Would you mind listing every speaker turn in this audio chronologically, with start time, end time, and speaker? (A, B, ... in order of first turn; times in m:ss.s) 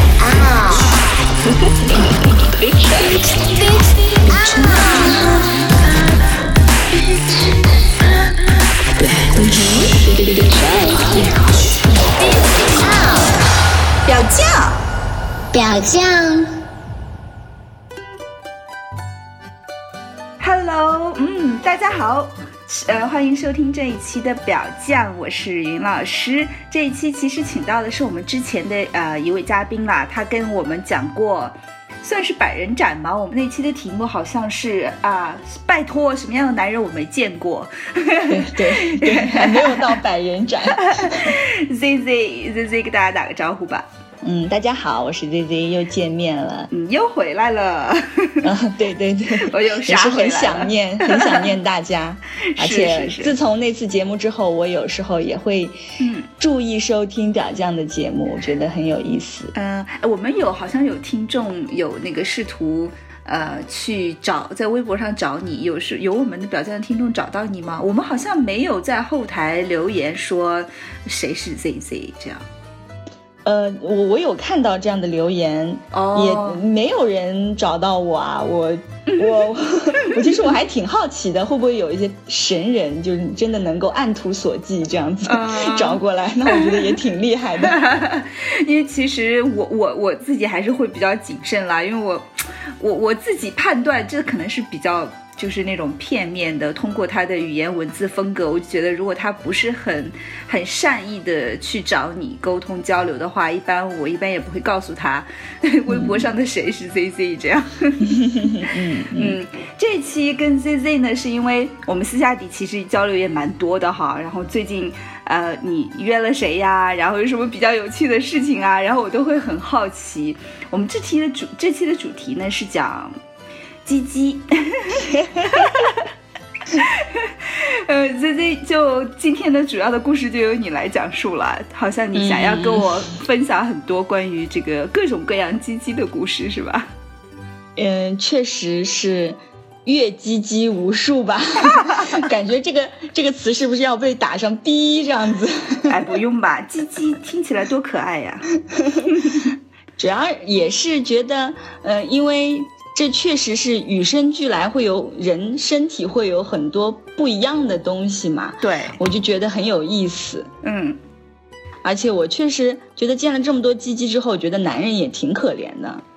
0:02.5-0:05.5 A
0:04.4-0:05.4 B
0:09.3-0:11.4 B
0:12.2-0:13.0 A
0:12.7-0:13.3 B
0:14.0-0:14.8 A
0:15.5-0:16.6 B
0:20.4-0:40.0 A
0:38.3-0:41.4 C
0:40.7-0:43.9 A
0:44.2-0:46.7 C
0:46.7-0:48.5 A
0:48.4-0:55.8 C
0:49.4-0:51.5 A
0:52.5-0:53.3 A
0:56.0-0:56.3 A
0:56.4-0:59.5 C
0:59.5-1:12.5 A
1:13.4-1:27.8 C
1:15.9-1:16.6 A
1:19.1-1:20.4 A
1:25.2-1:27.0 A
1:27.6-1:32.3 A
1:32.8-1:48.1 A
1:45.9-1:46.3 C
1:48.1-1:49.4 C
1:49.1-2:03.1 A
2:03.8-2:06.1 A
2:05.1-2:05.8 C
2:06.7-2:16.9 A
2:12.2-2:13.1 C
2:17.8-2:26.0 C
2:21.7-2:22.2 A
2:25.9-2:28.5 A
2:28.7-2:29.4 C
2:29.1-2:29.5 A
2:30.0-2:40.5 C
2:38.6-2:39.0 A
2:40.6-2:41.0 A
2:41.8-2:46.0 C